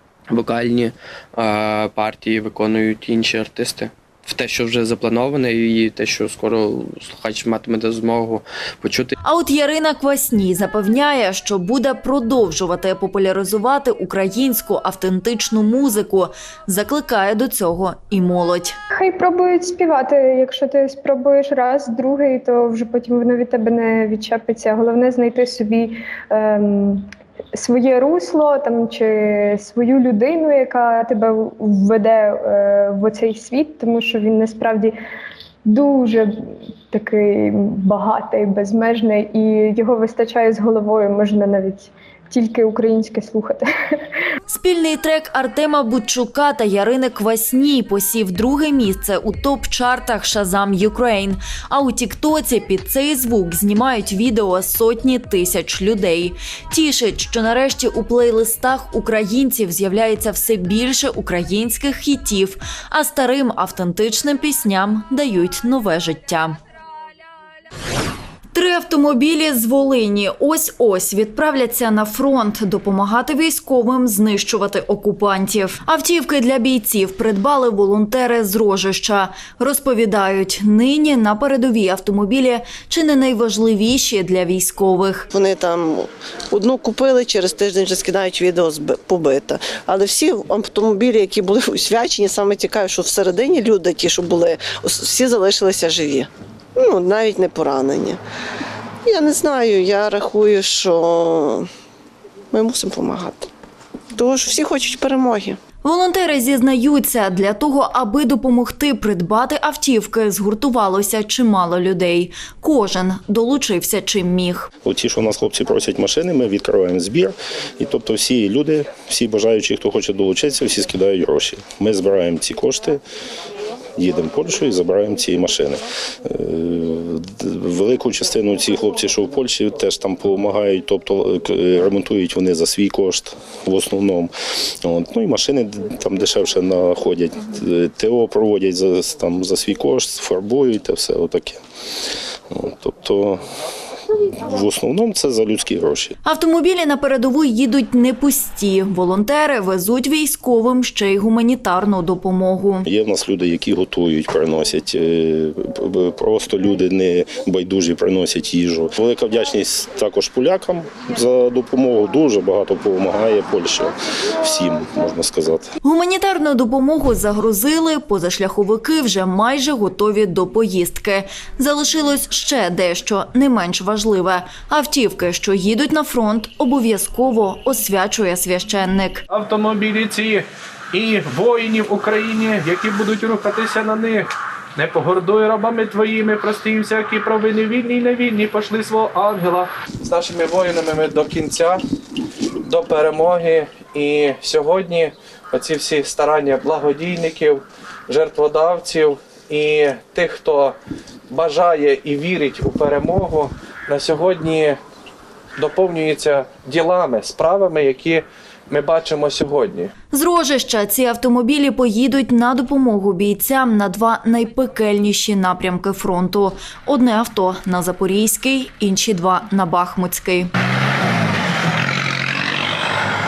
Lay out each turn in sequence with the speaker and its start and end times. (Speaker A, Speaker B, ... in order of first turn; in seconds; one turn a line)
Speaker A: 0.3-9.1
Speaker B: 9.2-18.8
Speaker C: 18.9-35.0
Speaker C: 35.7-43.6
Speaker B: 44.5-66.6
Speaker B: 68.5-85.3
Speaker D: 85.3-98.2
Speaker D: 99.1-101.7
Speaker D: 102.5-103.5
Speaker D: 104.1-105.6
Speaker B: 105.8-114.7
Speaker E: 114.8-123.0
Speaker E: 124.0-134.3
Speaker E: 134.8-141.6
Speaker E: 142.5-143.4
Speaker E: 144.4-146.1
Speaker B: 146.2-152.9
Speaker E: 152.8-165.7
Speaker B: 165.8-179.2
Speaker F: 179.3-191.8
Speaker F: 192.6-200.8
Speaker F: 201.3-204.8
Speaker F: 205.6-209.9
Speaker B: 210.1-220.5